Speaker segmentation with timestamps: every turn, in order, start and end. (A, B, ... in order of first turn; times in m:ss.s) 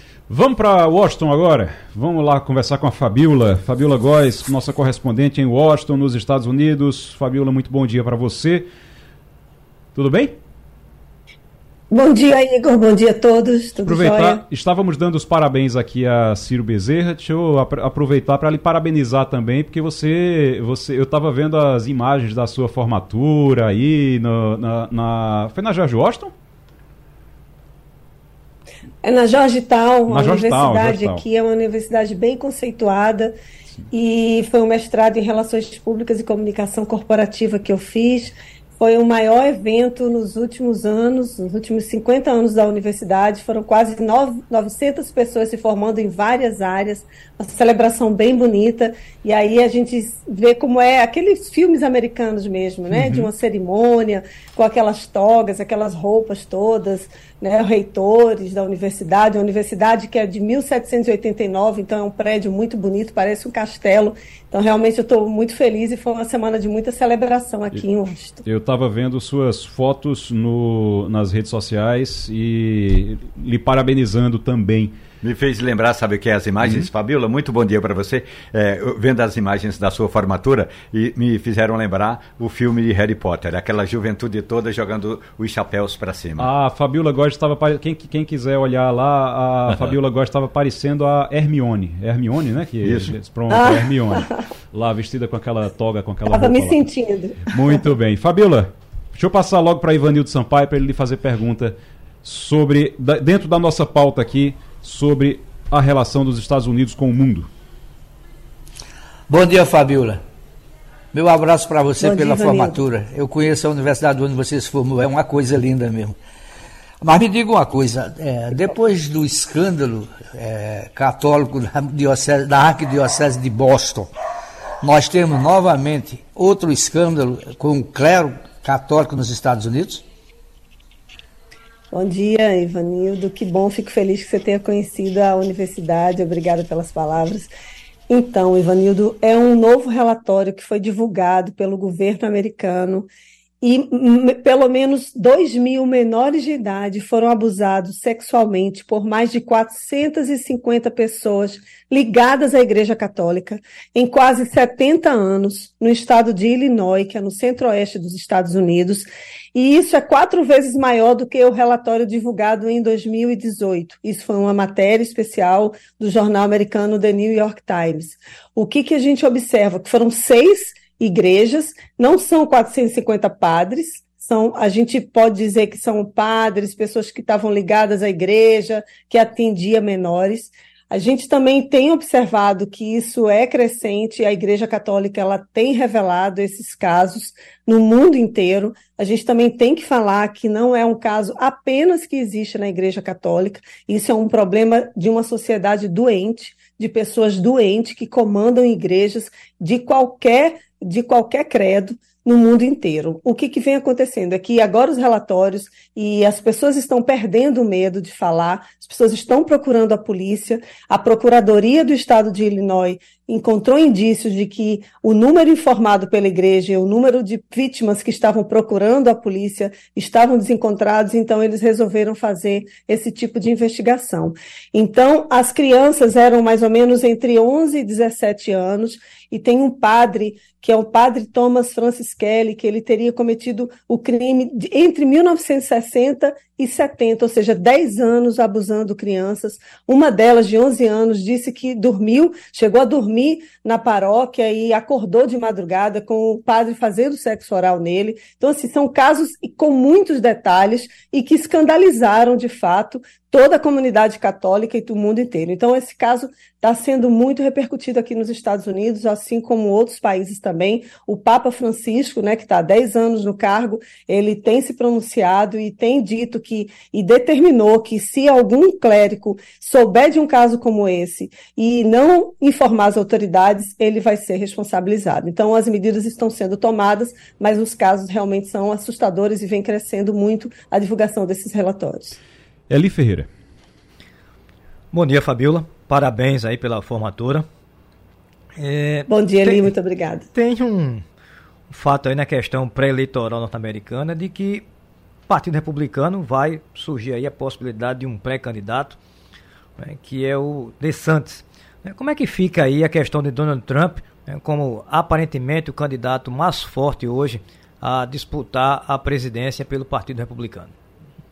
0:00.3-0:08.7 A
0:10.0-0:10.4 A
0:11.9-0:14.4 B
0:13.8-0:26.3 A
0:29.0-0:33.4 B
0:30.1-0:31.2 A
0:33.9-1:08.4 B
0:52.9-0:53.3 A
1:08.4-1:14.9 A
1:15.2-1:26.5 C
1:26.4-1:36.9 A
1:32.8-1:33.1 C
1:33.5-1:34.4 B
1:36.3-1:37.5 B
1:37.5-1:47.5 A
1:49.3-1:50.2 D
1:51.1-1:56.2 D
1:52.0-1:52.8 B
1:57.0-2:04.1 D
2:04.8-2:10.0 D
2:11.9-2:17.5 B
2:18.1-2:23.1 B
2:23.6-4:42.2 B
4:42.7-4:43.3 A
4:44.9-4:47.5 E
4:48.6-4:49.7 E
4:49.1-4:50.3 B
4:50.3-4:51.0 E
4:51.7-4:54.6 E
4:55.3-4:59.0 E
4:59.8-5:10.8 E